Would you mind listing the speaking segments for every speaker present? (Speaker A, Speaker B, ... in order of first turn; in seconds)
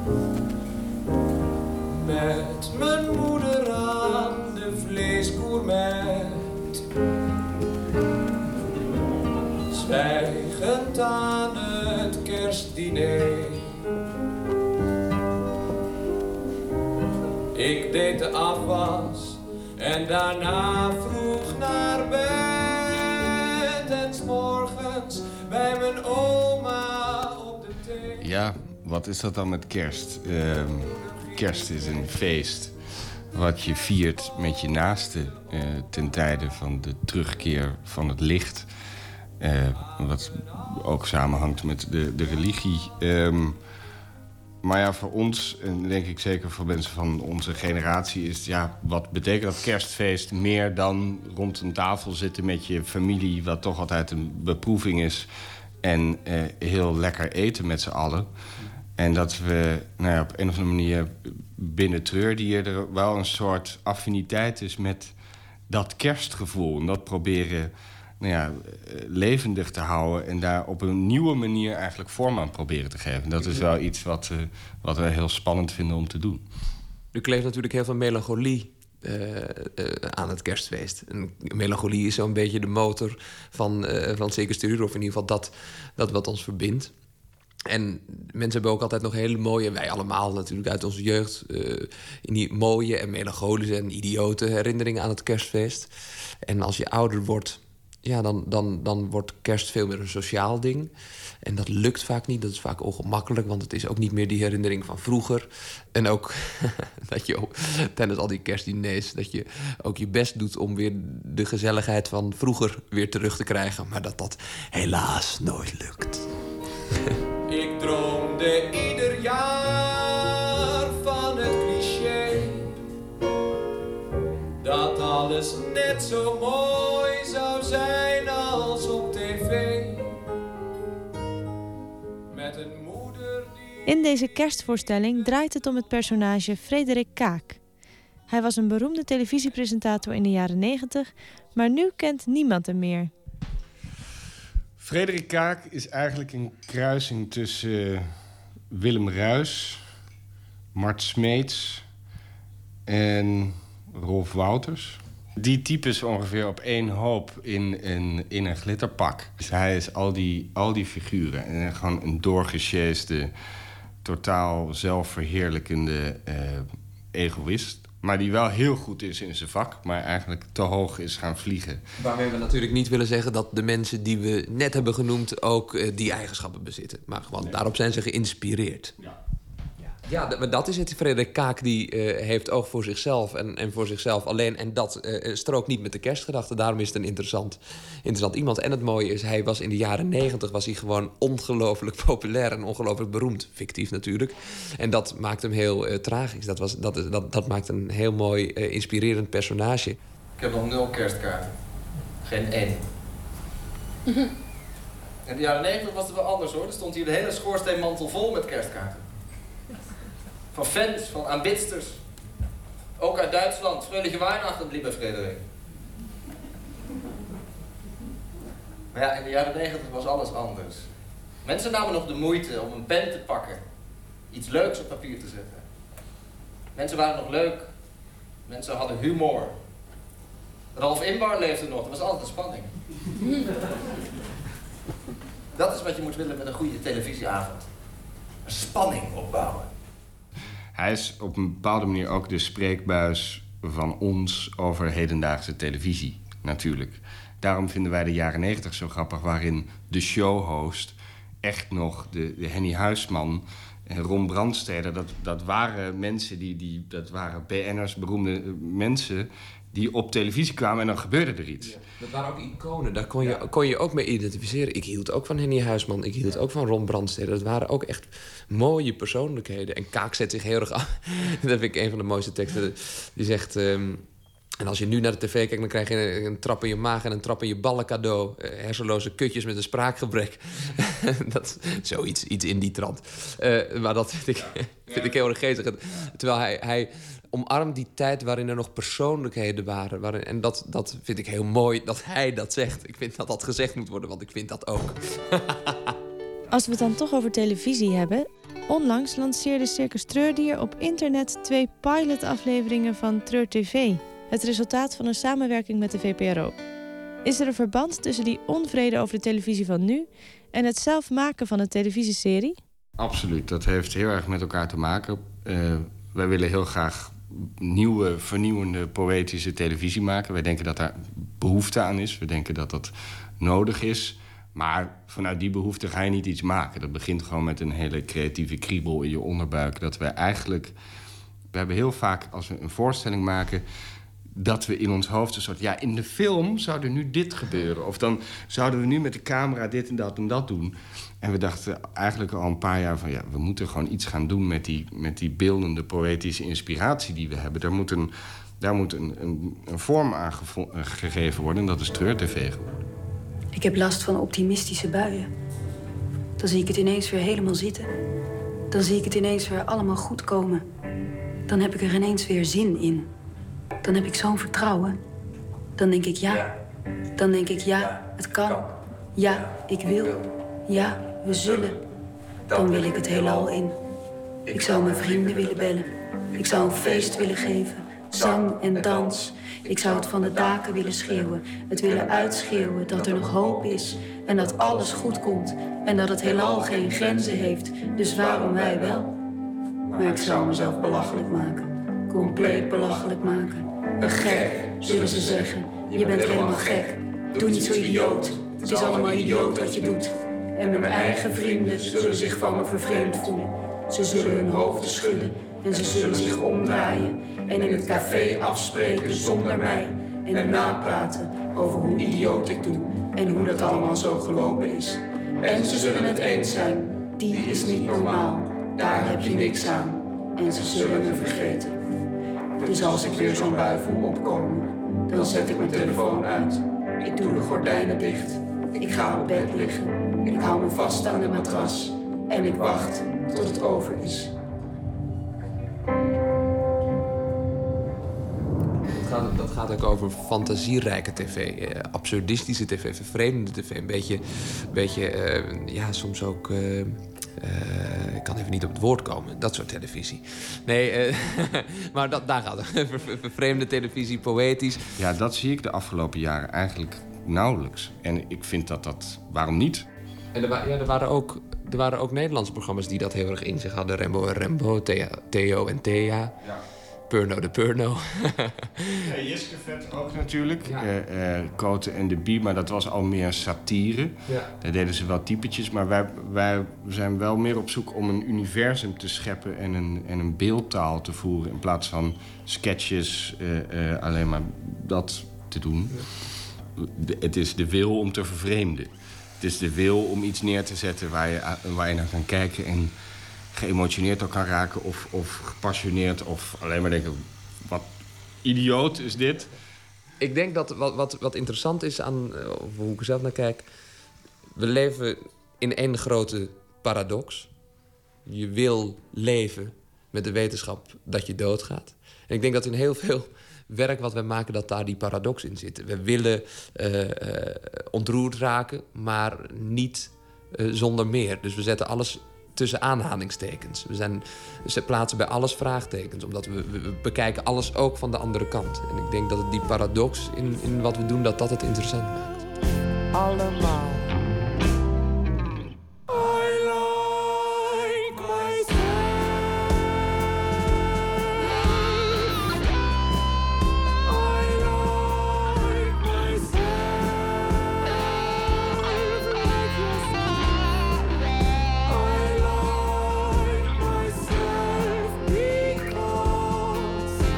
Speaker A: 1.9-6.5, 9.7-13.8, 17.5-28.3, 31.0-31.8, 117.5-122.7, 124.6-130.2, 132.3-133.8
Speaker B: 28.2-32.8, 33.3-38.7, 39.4-43.6, 44.6-55.3, 55.8-58.4, 59.0-65.2, 65.7-76.5, 144.8-148.2, 148.7-149.9, 150.7-151.9, 152.9-163.3, 164.0-171.8, 240.8-261.8, 313.0-330.8, 331.5-333.6, 334.4-352.8, 455.0-459.9, 469.1-486.2, 486.8-492.9, 493.5-497.9, 498.4-499.5
Speaker C: 77.1-87.0, 87.7-116.2, 172.0-178.9, 179.9-200.0, 261.6-274.1, 274.6-295.8, 438.9-454.9, 460.3-466.4, 467.1-469.1, 500.2-503.7, 504.6-507.5, 508.3-532.3
Speaker D: 133.9-137.6, 138.3-143.1, 296.5-306.6, 307.2-312.6
Speaker E: 200.4-201.5, 202.2-202.8, 205.3-209.0, 210.5-212.0, 213.0-215.4, 218.9-220.9, 221.4-223.6, 224.3-225.6, 226.8-227.7, 228.5-229.5, 230.8-232.7, 235.5-237.6, 238.4-239.7
Speaker F: 353.5-355.3, 356.4-357.9, 358.7-360.6, 361.5-363.1, 363.8-365.0, 365.8-366.5, 367.2-371.8, 372.5-373.8, 374.5-389.1, 389.9-421.8, 422.6-434.3, 533.1-534.0